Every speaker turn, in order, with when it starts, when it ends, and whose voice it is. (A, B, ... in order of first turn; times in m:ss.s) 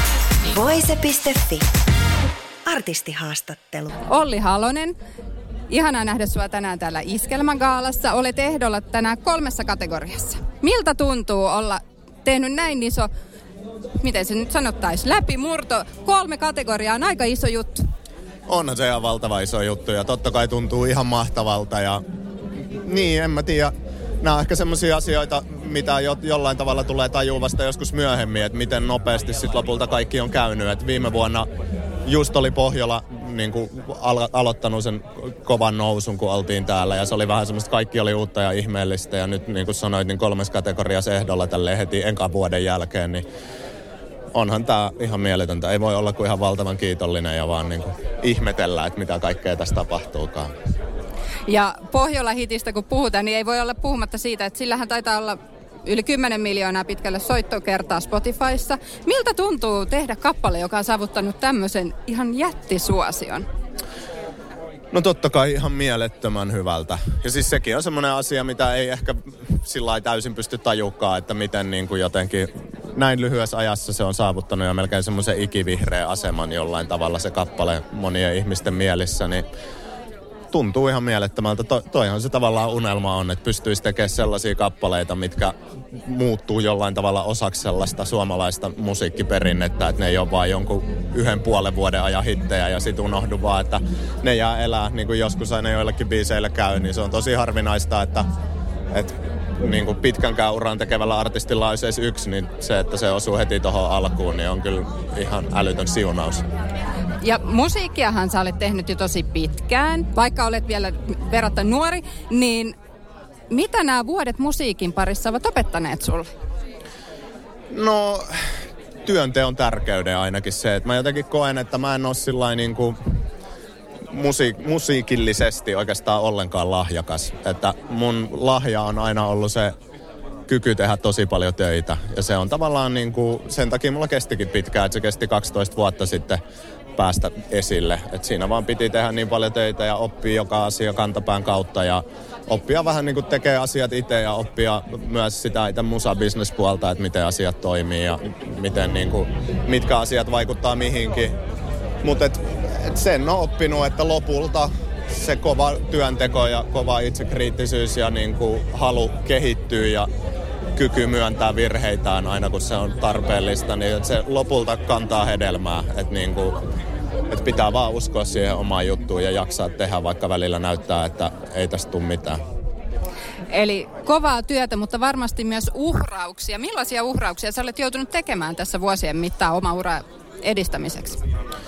0:00.5-0:01.7 A
0:02.6-0:03.9 A
0:04.1-0:04.9 B
0:05.7-0:13.1 B
0:14.0-0:17.8 B
0:18.5-0:22.0 C
0:22.8-0:31.5 C
0:32.0-0:43.2 C
0:44.3-0:50.5 C
0:51.5-1:03.4 B
1:04.9-1:19.4 C
1:20.5-1:38.2 C
1:38.9-1:46.4 C
1:47.2-1:52.7 B
1:53.5-1:56.3 B
1:57.7-1:58.5 C
1:59.0-2:03.0 C
2:04.1-2:09.7 C
2:10.5-2:16.4 C
2:17.0-2:31.3 C
2:32.0-2:40.1 C
2:40.8-2:46.6 C
2:47.3-2:52.4 C
2:53.5-3:01.2 B